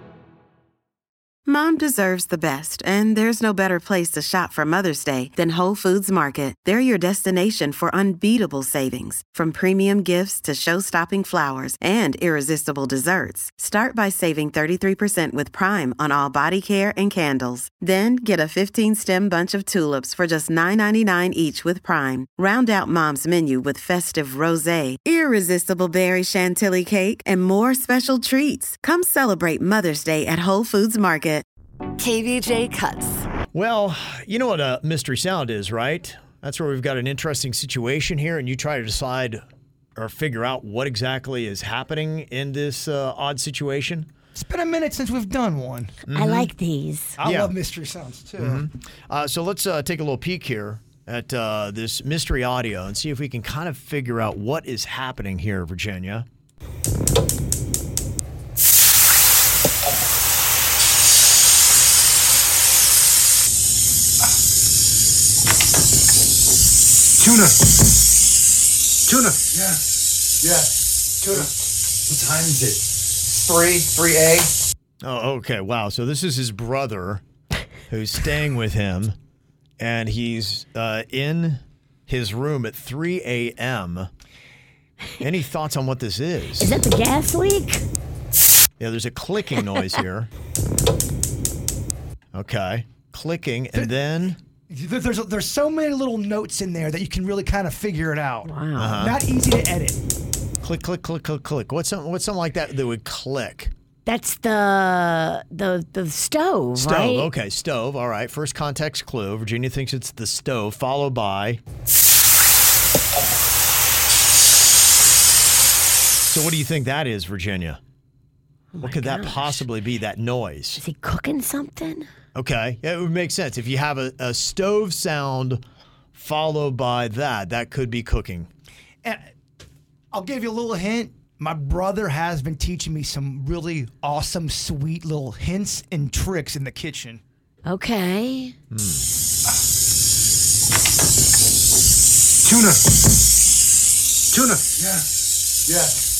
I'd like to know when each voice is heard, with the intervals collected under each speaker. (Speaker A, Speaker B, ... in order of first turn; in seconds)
Speaker A: 1.4-31.4
Speaker B: 32.0-33.2, 46.1-47.1, 86.6-87.8, 98.4-99.0, 104.0-107.3, 118.7-119.7, 120.8-122.1, 137.7-138.5
Speaker C: 33.5-39.4, 40.0-44.1, 46.1-46.5, 47.2-47.5, 48.4-56.3, 75.0-77.2, 77.9-79.2, 79.8-84.1, 85.2-86.8, 88.8-90.3, 92.3-94.4, 98.8-99.2, 100.6-103.7, 106.8-111.6, 116.2-117.8, 118.8-120.8, 122.3-125.6, 126.1-128.5, 138.7-139.1
Speaker D: 44.4-45.9, 47.2-48.6, 94.7-100.0, 130.1-137.2
Speaker E: 67.2-67.6, 69.1-69.8, 70.4-70.7, 71.2-71.5, 72.1-74.5, 142.4-142.8, 144.3-145.0, 145.7-145.9